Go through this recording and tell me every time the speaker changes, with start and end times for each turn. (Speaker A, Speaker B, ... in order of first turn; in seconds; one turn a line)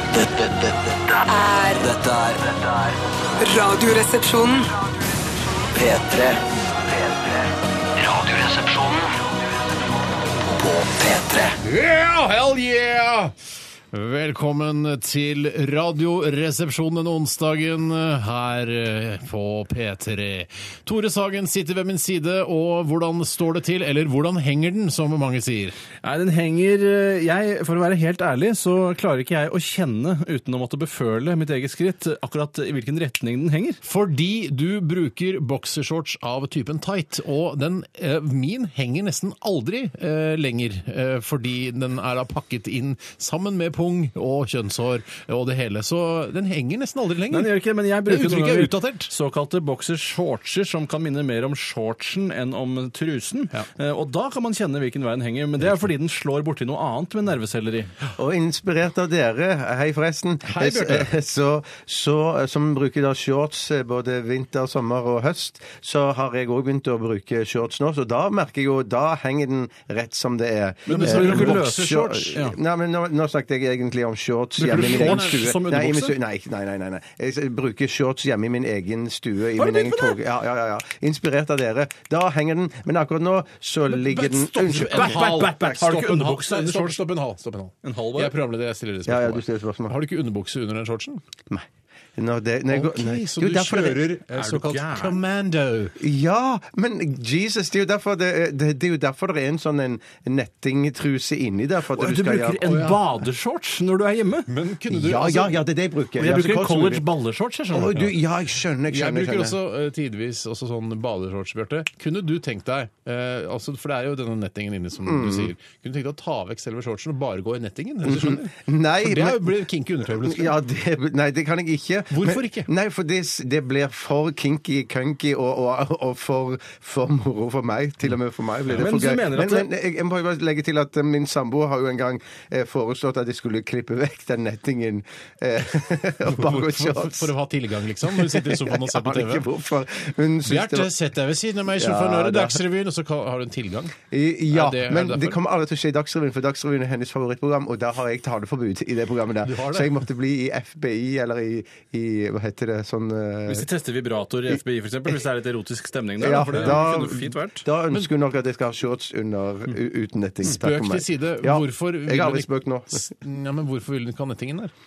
Speaker A: 0.1-1.2
Speaker B: 1.2-1.9
Speaker A: 1.8-3.0
Speaker B: 3.4-4.7
Speaker A: 5.7-9.1
Speaker A: 10.5-11.6
Speaker C: 11.6-13.3
Speaker C: 13.9-25.8
Speaker D: 26.0-33.8
Speaker C: 33.8-49.1
Speaker D: 47.3-57.9
Speaker E: 58.1-85.8
Speaker C: 60.4-61.1
Speaker D: 70.9-72.5
Speaker C: 70.9-72.3
Speaker D: 74.6-76.1
Speaker C: 74.6-75.4
Speaker D: 79.6-80.2
Speaker C: 83.9-91.2
Speaker D: 84.9-87.0
Speaker D: 87.8-88.3
Speaker E: 89.0-89.9
Speaker E: 91.5-94.2
Speaker C: 92.7-96.0
Speaker D: 94.3-95.2
Speaker E: 96.0-102.7
Speaker D: 101.9-104.5
Speaker C: 102.6-103.0
Speaker C: 104.5-105.6
Speaker E: 104.9-107.0
Speaker D: 106.2-108.1
Speaker E: 107.7-109.5
Speaker C: 108.9-120.5
Speaker E: 115.0-115.5
Speaker E: 118.0-119.6
Speaker E: 120.1-137.3
Speaker C: 122.1-122.7
Speaker D: 128.7-129.7
Speaker C: 136.2-139.4
Speaker E: 138.1-140.9
Speaker C: 140.4-143.9
Speaker E: 141.7-142.6
Speaker E: 144.1-153.7
Speaker C: 144.5-145.4
Speaker C: 149.4-150.0
Speaker D: 153.5-157.7
Speaker E: 156.2-163.1
Speaker C: 160.4-164.7